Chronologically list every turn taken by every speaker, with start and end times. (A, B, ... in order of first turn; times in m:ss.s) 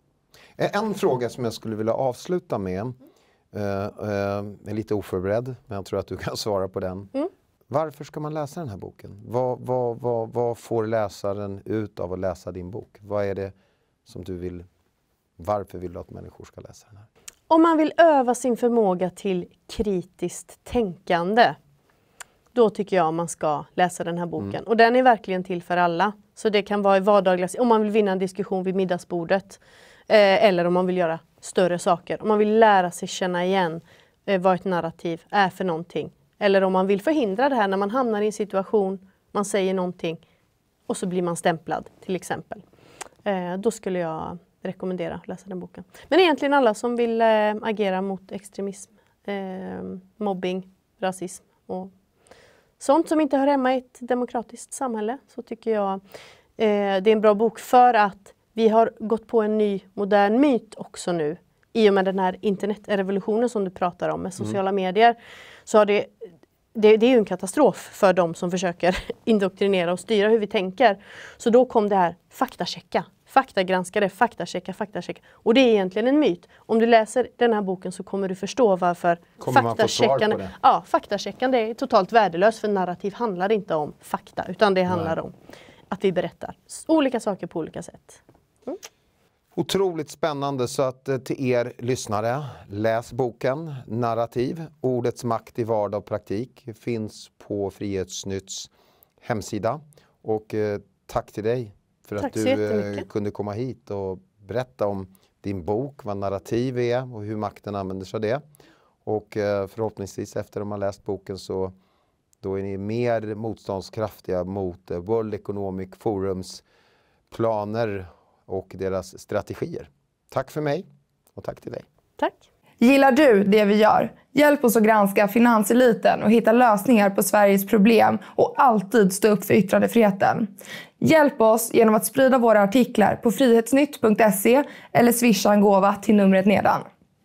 0:00.6-0:03.0 A
0:03.5-0:07.1 A
0:07.7-0:13.5 A
0:14.0-0:14.7 A
0:15.4-0:17.0 A
0:17.5-0:21.6 B
0:22.5-0:40.2 B
0:40.9-0:42.6 B
0:43.2-0:51.9 B
0:52.8-0:56.0 B
0:56.6-1:06.1 B
1:06.7-1:25.3 B
1:19.4-1:20.5 A
1:24.9-1:25.1 A
1:25.9-1:28.8 B
1:29.5-1:38.7 A
1:39.2-1:48.4 A
1:42.2-1:43.0 B
1:49.0-1:51.7 A
1:52.4-1:56.6 A
1:57.3-2:01.8 A
2:02.2-2:02.4 B
2:02.8-2:16.9 C